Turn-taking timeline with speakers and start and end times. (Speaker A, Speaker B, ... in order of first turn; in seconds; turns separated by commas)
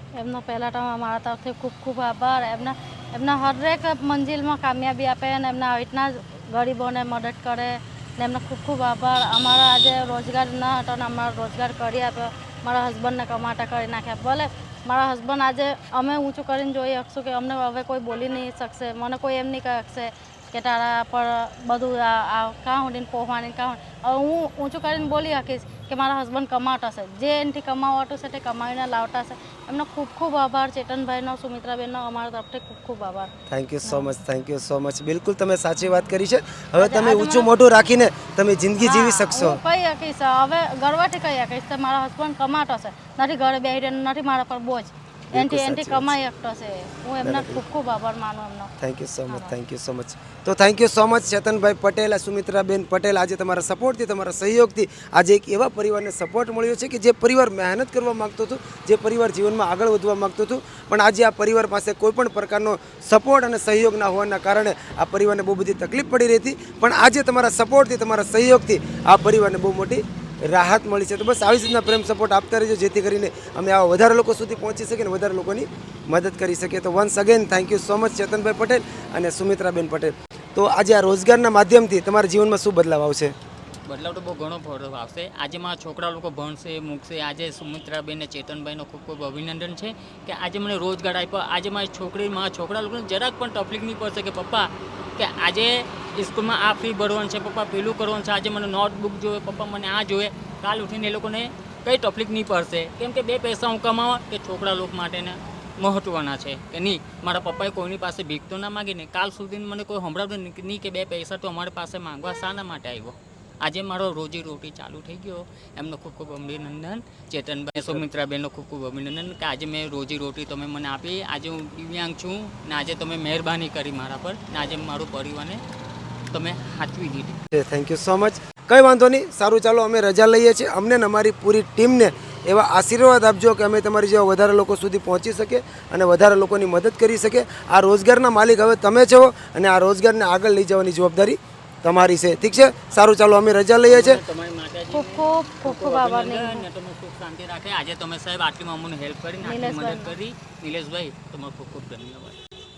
Speaker A: 0.2-33.3, Speaker B: 33.5-39.6, Speaker A: 33.8-34.1, Speaker A: 36.8-37.9, Speaker A: 38.8-48.7, Speaker B: 45.3-46.1, Speaker B: 47.2-47.6, Speaker B: 48.8-83.3, Speaker C: 83.9-125.6, Speaker C: 126.3-127.4, Speaker B: 127.5-144.2, Speaker C: 143.8-152.4, Speaker A: 144.9-146.7, Speaker A: 149.4-150.2